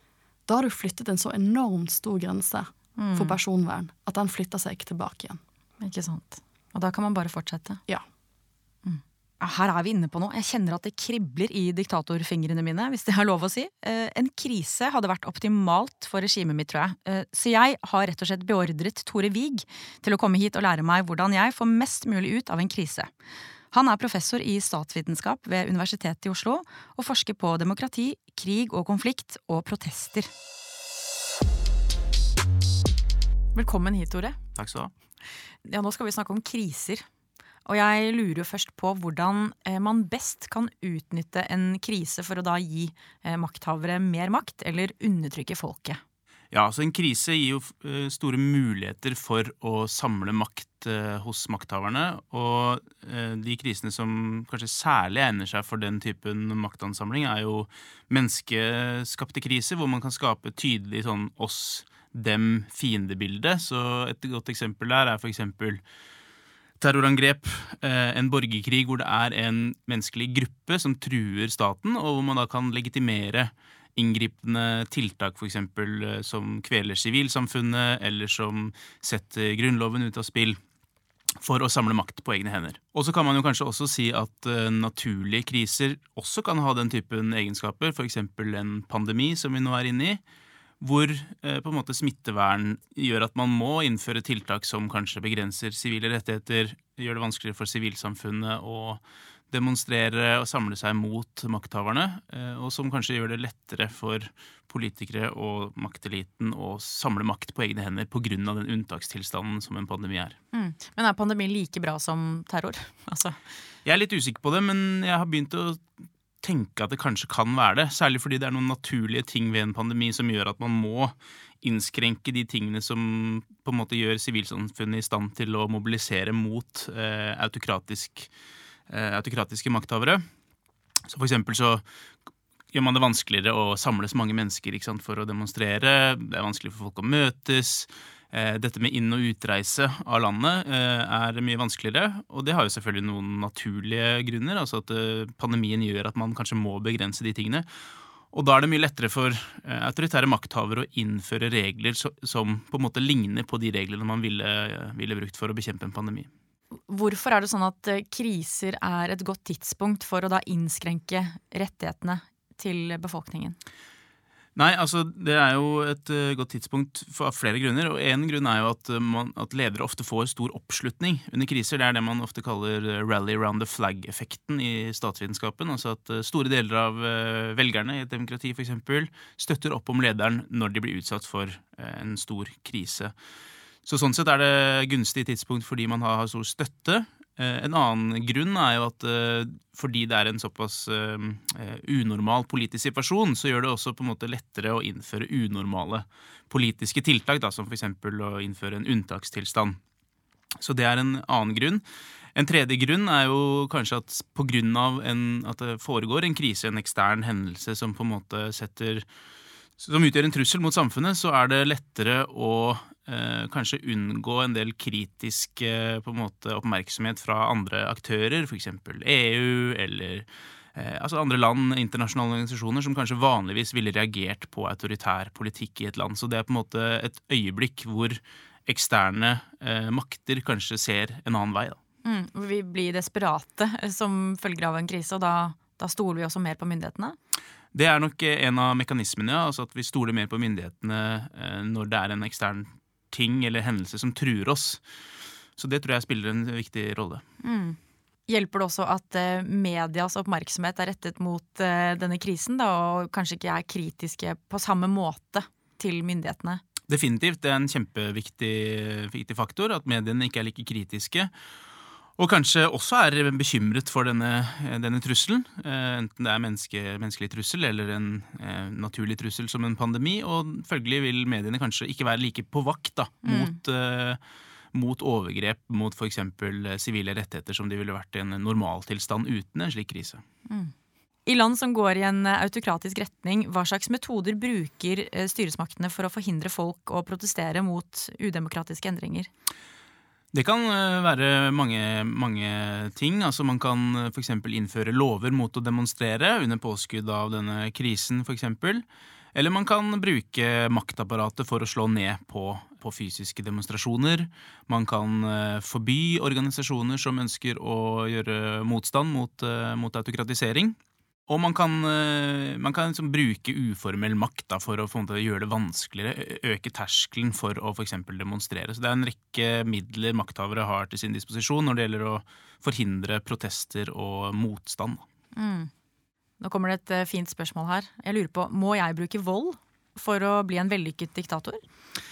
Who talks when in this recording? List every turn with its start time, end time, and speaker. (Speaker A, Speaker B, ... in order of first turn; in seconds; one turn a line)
Speaker A: 0.5-5.4
Speaker B: 3.0-3.4
Speaker B: 5.8-7.8
Speaker B: 8.8-23.1
Speaker B: 23.7-30.3
Speaker B: 33.5-34.4
Speaker C: 34.5-34.9
Speaker B: 35.6-37.0
Speaker B: 37.6-46.0
Speaker C: 46.5-65.8
Speaker C: 66.8-80.6
Speaker C: 81.4-90.2
Speaker C: 90.8-110.4
Speaker B: 110.5-113.3
Speaker C: 113.8-115.8
Speaker C: 116.4-128.3
Speaker C: 128.9-130.2
Speaker C: 131.1-131.8
Speaker C: 132.7-147.7
Speaker C: 148.3-156.3
Speaker B: 156.9-163.6
Speaker C: 164.6-183.1
Speaker C: 183.8-199.8
Speaker C: 200.6-201.8
Speaker C: 202.3-209.1
Speaker C: 209.8-231.8
Speaker B: 232.0-237.2
Speaker C: 237.7-244.8
Speaker C: 245.6-247.2
Speaker B: 247.4-256.6
Speaker C: 256.9-261.3
Speaker C: 262.2-274.2
Speaker B: 273.2-273.5
Speaker C: 274.7-280.2
Speaker B: 281.2-289.3
Speaker C: 290.3-298.8
Speaker C: 299.3-310.8
Speaker C: 311.3-325.0
Speaker B: 325.3-325.7
Speaker B: 326.4-331.6